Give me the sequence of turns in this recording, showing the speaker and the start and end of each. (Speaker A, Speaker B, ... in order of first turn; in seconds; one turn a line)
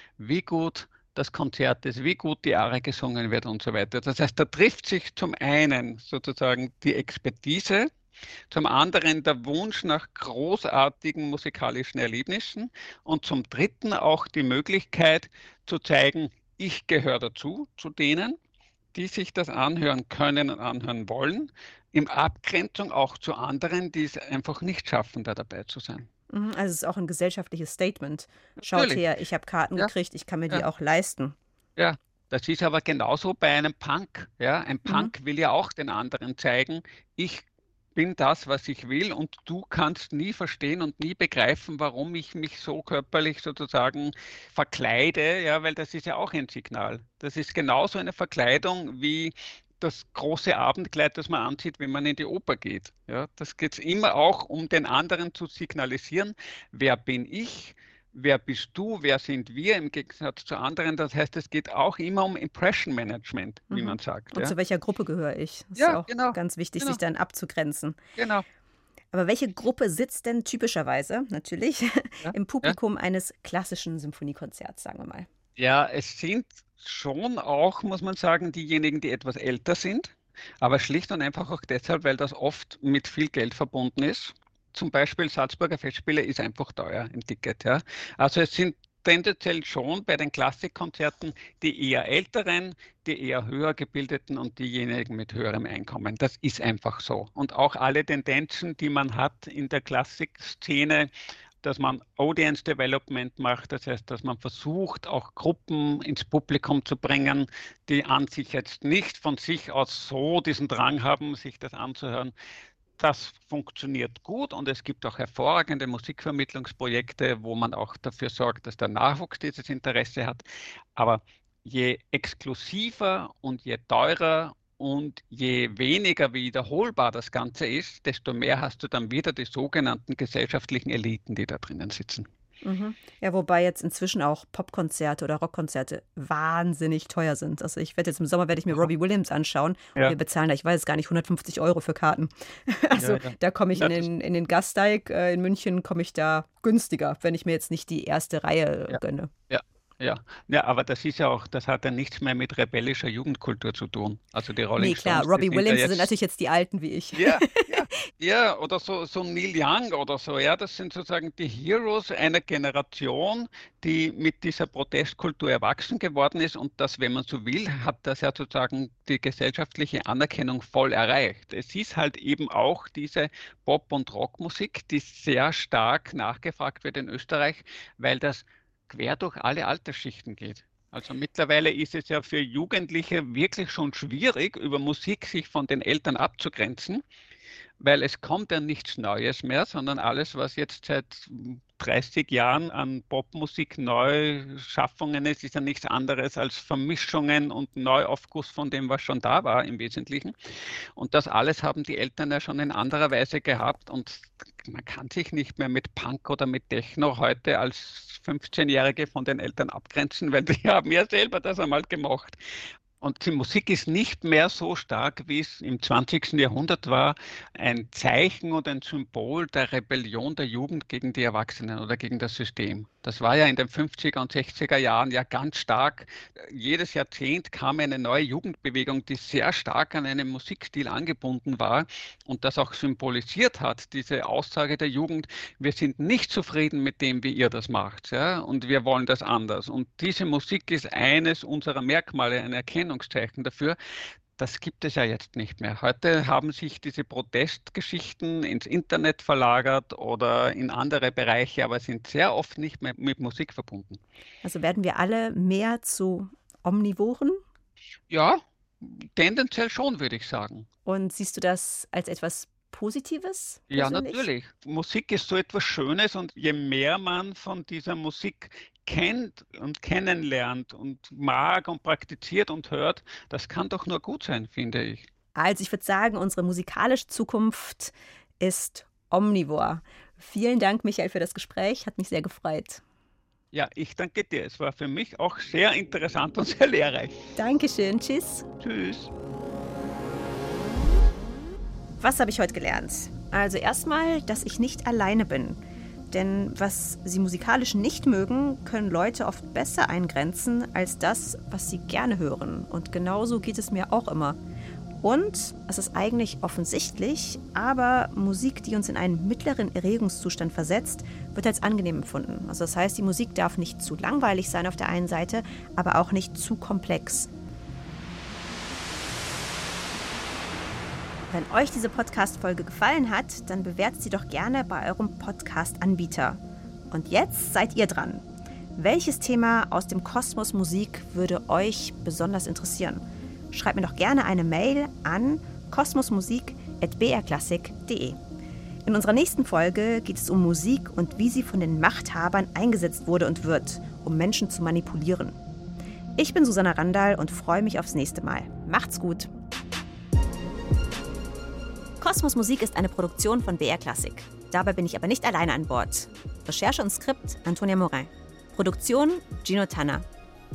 Speaker A: 0.2-7.9
Speaker A: 8.5-18.4
Speaker A: 18.9-26.1
Speaker B: 26.3-31.4
Speaker A: 28.6-29.0
Speaker A: 31.8-64.5
Speaker B: 34.9-35.1
Speaker B: 63.7-68.0
Speaker A: 65.8-67.0
Speaker A: 68.2-68.5
Speaker B: 69.1-75.3
Speaker A: 72.2-72.8
Speaker A: 75.6-101.1
Speaker A: 101.6-112.3
Speaker A: 113.0-120.4
Speaker A: 121.0-132.3
Speaker B: 132.6-149.3
Speaker A: 143.0-144.1
Speaker A: 148.9-156.1
Speaker B: 154.8-158.0
Speaker A: 157.2-187.0
Speaker A: 187.8-200.3
Speaker A: 201.0-212.4
Speaker A: 213.0-243.8
Speaker A: 244.4-254.0
Speaker B: 254.4-257.4
Speaker A: 258.1-260.7
Speaker B: 260.9-264.3
Speaker A: 263.7-275.1
Speaker B: 275.4-282.8
Speaker A: 283.5-287.1
Speaker B: 287.4-288.5
Speaker A: 288.6-289.1
Speaker B: 292.0-304.4
Speaker B: 305.0-317.3
Speaker B: 321.3-328.2
Speaker B: 328.8-338.2
Speaker B: 338.9-345.4
Speaker B: 346.2-349.3
Speaker B: 352.0-360.1